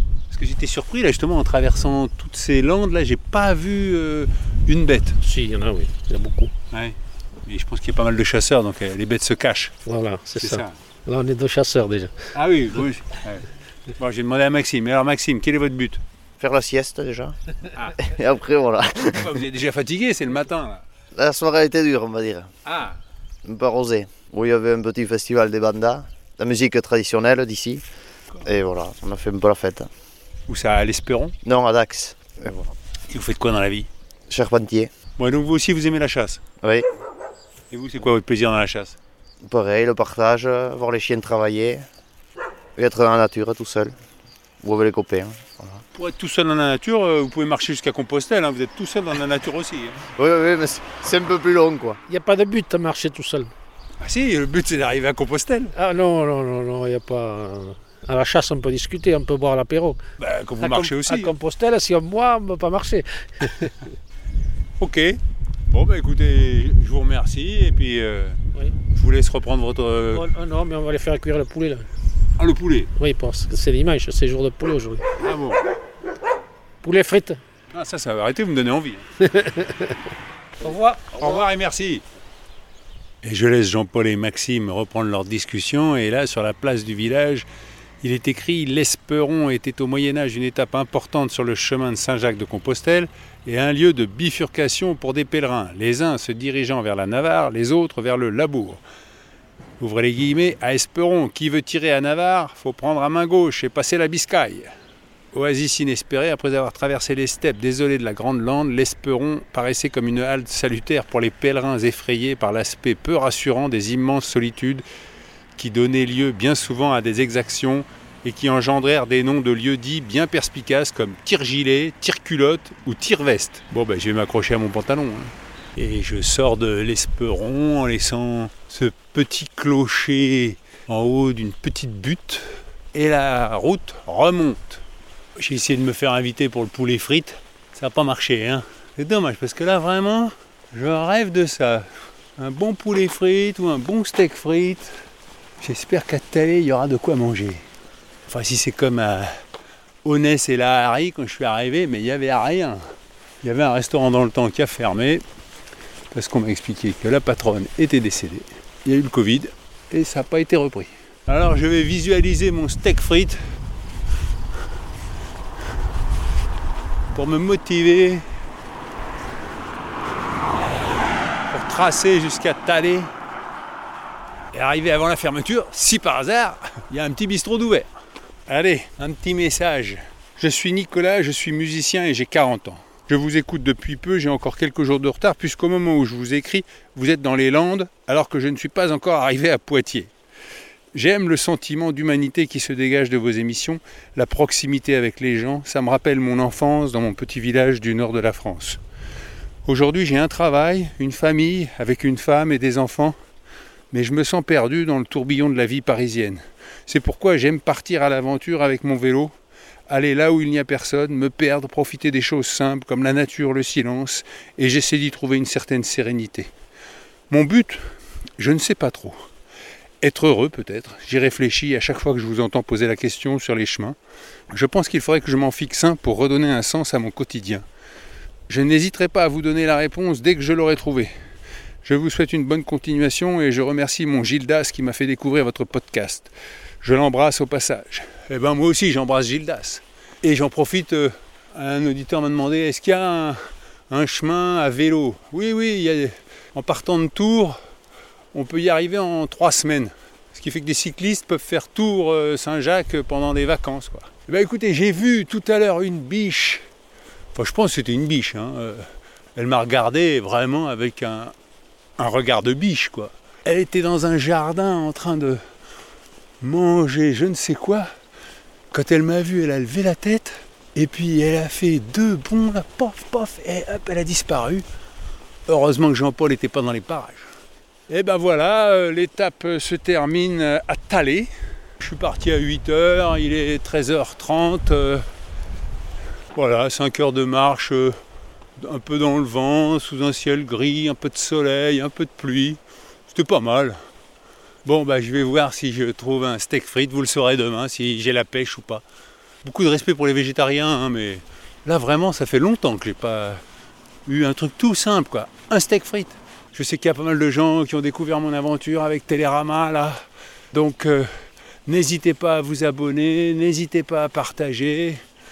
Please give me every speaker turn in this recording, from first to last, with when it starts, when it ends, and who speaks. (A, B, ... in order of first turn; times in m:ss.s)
0:00.3-0:05.2 A
0:05.2-0:06.5 B
0:07.5-0:09.7 A
0:09.9-0:12.2 B
0:10.4-0:10.8 A
0:12.3-0:13.5 A
0:14.0-0:16.0 A
0:16.4-0:17.4 C
0:17.8-0:18.1 A
0:18.0-0:19.3 C
0:19.0-0:20.8 A
0:21.2-0:22.5 C
0:22.7-0:23.0 A
0:23.4-0:27.8 C
0:28.4-0:29.9 C
0:30.5-0:31.4 A
0:31.4-0:32.7 C
0:33.1-0:33.9 A
0:34.3-0:34.9 C
0:35.2-0:36.4 A
0:37.7-0:39.0 A
0:39.4-0:41.9 C
0:42.8-0:44.0 C
0:44.6-0:45.8 C
0:46.0-0:50.0 A
0:50.2-0:52.0 C
0:52.1-0:53.5 B
0:54.0-0:55.7 A
0:55.7-1:00.0 B
1:00.2-1:01.3 A
1:00.6-1:03.9 B
1:04.8-1:05.2 A
1:05.7-1:08.4 A
1:08.9-1:10.3 A
1:10.1-1:11.9 B
1:12.4-1:12.9 A
1:13.0-1:15.1 B
1:15.2-1:15.6 A
1:16.8-1:17.4 B
1:17.7-1:19.0 A
1:19.2-1:20.0 B
1:20.6-1:22.0 A
1:23.2-1:27.5 A
1:28.0-1:38.8 A
1:39.8-1:44.7 A
1:45.3-1:54.8 A
1:55.6-2:14.8 A
2:15.4-2:24.9 A
2:25.6-2:27.6 A
2:28.3-2:29.3 A
2:30.0-2:32.8 A
2:33.4-2:35.2 A
2:36.1-2:43.4 A
2:47.1-2:48.2 A
2:51.5-2:53.1 A
2:54.5-2:57.9 A
2:58.5-3:10.1 A
3:10.9-3:18.8 A
3:19.7-3:23.2 A
3:23.9-3:29.3 A
3:29.9-3:36.5 A
3:37.3-3:37.8 A
3:38.4-3:39.2 A
3:40.0-3:44.0 A
3:44.5-3:47.6 A
3:48.5-3:51.1 A
3:51.8-3:56.3 A
3:56.8-4:03.4 A
4:03.9-4:07.6 A
4:08.3-4:16.6 A
4:17.4-4:18.8 A
4:19.4-4:21.3 A
4:22.0-4:25.4 A
4:26.4-4:27.9 A
4:28.7-4:34.6 A
4:35.5-4:37.3 A
4:37.9-4:45.0 A
4:46.4-4:48.0 A
4:48.6-4:53.8 A
4:54.6-4:58.8 A
4:59.4-5:03.4 A
5:04.1-5:11.1 A
5:11.7-5:15.0 A